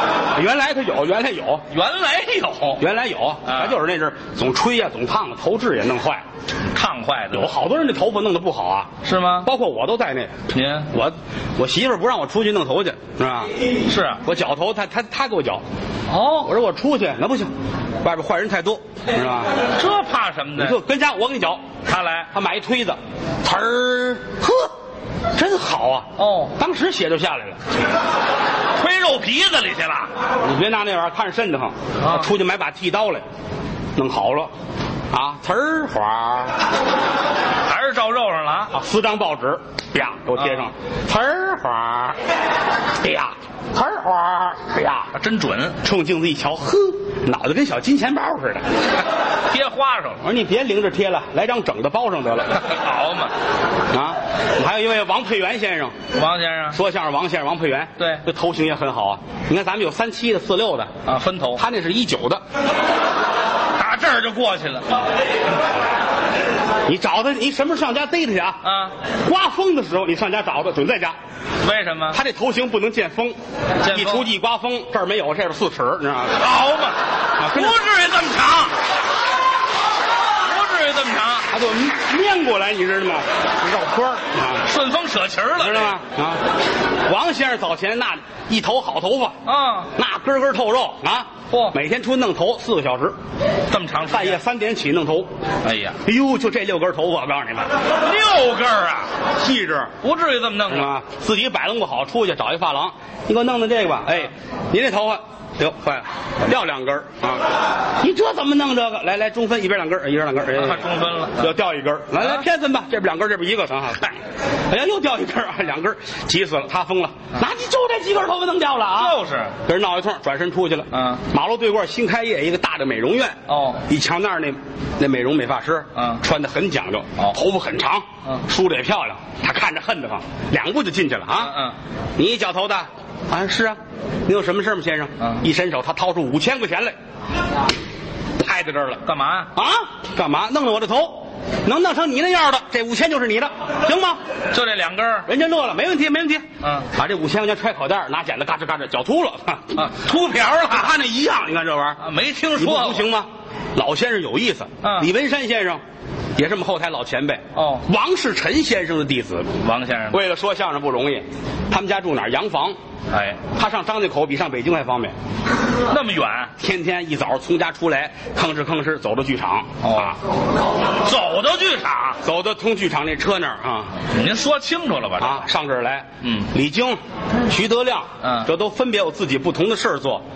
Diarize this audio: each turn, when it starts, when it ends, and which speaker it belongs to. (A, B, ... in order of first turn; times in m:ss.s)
0:00.3-0:01.6 A
0:01.7-0:02.8 B
0:02.8-0:06.2 A
0:03.4-0:03.8 B
0:06.7-0:07.5 B
0:07.3-0:08.9 A
0:09.0-0:09.5 B
0:09.4-0:10.4 A
0:10.5-0:10.9 B
0:10.9-0:13.5 A
0:13.8-0:14.2 B
0:14.2-0:15.6 A
0:16.1-0:16.5 B
0:16.4-0:17.5 A
0:18.0-0:19.6 A
0:19.6-0:20.8 B
0:20.6-0:21.6 A
0:21.8-0:22.3 B
0:22.3-0:24.7 A
0:25.3-0:27.6 A
0:26.2-0:26.5 B
0:28.7-0:30.1 B
0:30.4-0:33.2 A
0:32.0-0:32.3 B
0:34.0-0:34.5 A
0:35.1-0:36.6 A
0:37.6-0:38.7 B
0:38.7-0:42.2 A
0:40.4-0:40.6 B
0:43.0-0:45.1 A
0:45.1-0:45.8 B
0:45.8-0:48.7 A
0:49.5-0:50.2 B
0:50.2-0:52.6 A
0:52.5-0:53.3 B
0:53.9-0:56.0 A
0:56.1-0:56.8 B
0:56.7-1:00.9 A
1:01.0-1:01.6 B
1:01.6-1:02.4 A
1:03.8-1:05.2 B
1:06.8-1:11.1 A
1:08.6-1:08.9 B
1:11.6-1:12.2 B
1:12.1-1:16.4 A
1:13.8-1:14.3 B
1:16.3-1:18.8 B
1:17.4-1:17.8 A
1:20.4-1:21.5 B
1:21.5-1:24.6 A
1:24.6-1:26.0 B
1:25.6-1:26.4 A
1:27.0-1:29.4 A
1:29.4-1:29.9 B
1:29.9-1:33.1 A
1:33.7-1:34.4 B
1:34.1-1:35.3 A
1:35.6-1:36.0 B
1:36.0-1:37.8 A
1:38.0-1:39.1 B
1:39.4-1:39.9 A
1:40.0-1:40.9 B
1:40.7-1:47.4 A
1:48.0-1:54.2 A
1:50.5-1:51.5 B
1:54.7-2:11.6 A
1:59.0-1:59.5 B
2:00.9-2:01.2 B
2:03.5-2:03.8 B
2:06.0-2:06.2 B
2:11.4-2:11.8 B
2:12.2-2:16.9 A
2:18.4-2:19.0 A
2:19.0-2:19.5 B
2:19.5-2:24.2 A
2:24.5-2:25.3 B
2:25.2-2:29.8 A
2:26.6-2:26.9 B
2:29.7-2:30.9 B
2:30.7-2:32.0 A
2:32.0-2:33.1 B
2:32.6-2:35.8 A
2:34.8-2:35.1 B
2:36.4-2:39.5 A
2:37.5-2:37.8 B
2:39.6-2:40.2 B
2:40.1-2:42.7 A
2:43.1-2:43.4 B
2:43.5-2:45.1 A
2:45.9-2:46.5 B
2:46.6-2:50.2 A
2:49.8-2:50.2 B
2:51.0-2:52.2 B
2:52.2-2:54.0 A
2:54.0-2:55.4 B
2:55.2-3:00.2 A
2:56.2-2:56.5 B
2:58.2-2:58.5 B